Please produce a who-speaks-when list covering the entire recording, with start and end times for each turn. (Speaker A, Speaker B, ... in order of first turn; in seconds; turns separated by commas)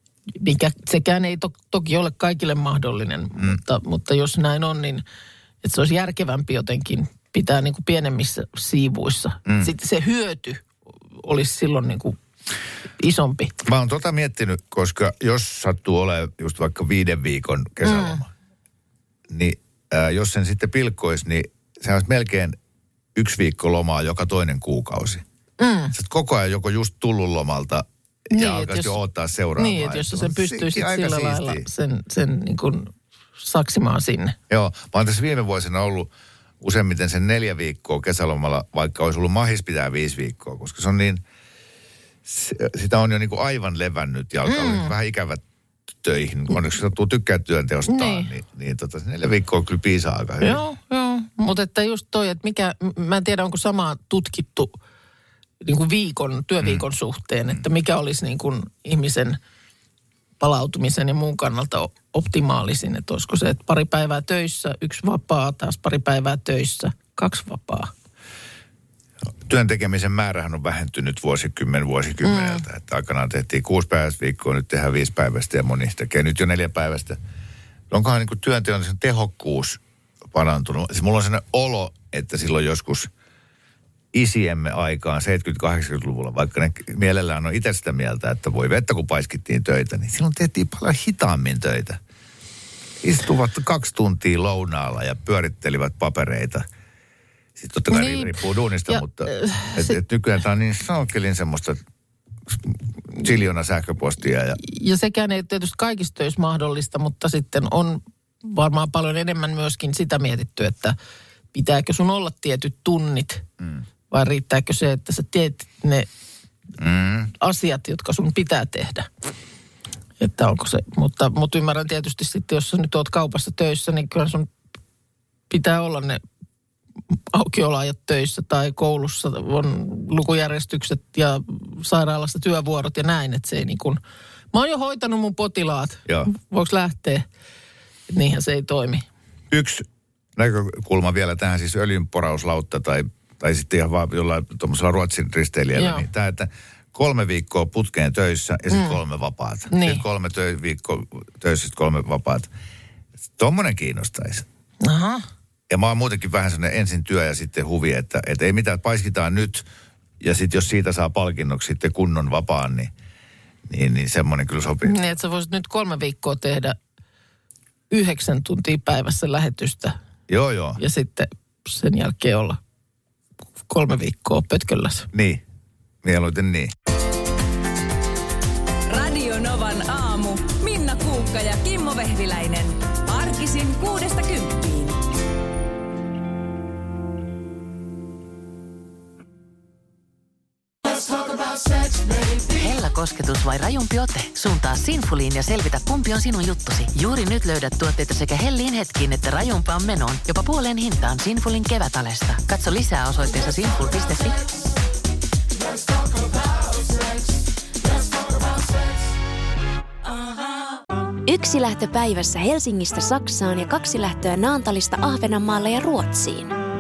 Speaker A: 0.4-5.0, Speaker A: 5.6-12.2, Speaker B: 9.5-9.7, Speaker A: 13.0-13.6, Speaker B: 13.6-18.3, Speaker A: 17.8-18.2, Speaker B: 19.3-22.6, Speaker B: 23.1-25.2, Speaker A: 25.6-25.9, Speaker B: 25.9-31.7, Speaker A: 28.3-29.0, Speaker A: 29.6-34.4, Speaker B: 34.5-36.1, Speaker B: 36.6-41.2, Speaker B: 42.3-45.4, Speaker A: 44.5-44.9, Speaker B: 46.0-50.6, Speaker A: 47.9-48.3, Speaker A: 50.4-54.8, Speaker A: 55.6-59.4, Speaker A: 60.4-67.9, Speaker B: 69.5-77.2, Speaker A: 72.2-72.7, Speaker B: 77.9-83.1, Speaker B: 84.1-92.0, Speaker B: 93.0-96.7, Speaker B: 97.6-101.8, Speaker A: 97.9-100.0, Speaker B: 102.5-104.6, Speaker A: 104.6-111.0, Speaker A: 111.5-113.4, Speaker A: 114.1-116.1, Speaker B: 116.8-117.3, Speaker A: 117.4-119.1, Speaker A: 120.2-124.5, Speaker A: 125.5-126.2, Speaker A: 127.3-134.0, Speaker A: 134.5-137.2, Speaker A: 138.1-139.1, Speaker B: 139.5-139.8, Speaker B: 140.4-152.5, Speaker A: 145.8-146.1, Speaker A: 148.7-149.0, Speaker A: 149.7-150.0, Speaker B: 153.4-154.4, Speaker A: 154.8-155.3, Speaker B: 155.7-159.7, Speaker B: 160.2-162.9, Speaker B: 163.7-165.0, Speaker A: 164.8-166.8, Speaker A: 167.9-170.0, Speaker B: 170.3-170.8, Speaker A: 170.8-172.6, Speaker A: 173.7-175.1, Speaker B: 175.1-175.4, Speaker B: 176.0-176.7, Speaker C: 178.9-185.0, Speaker D: 192.5-204.4, Speaker E: 211.2-216.6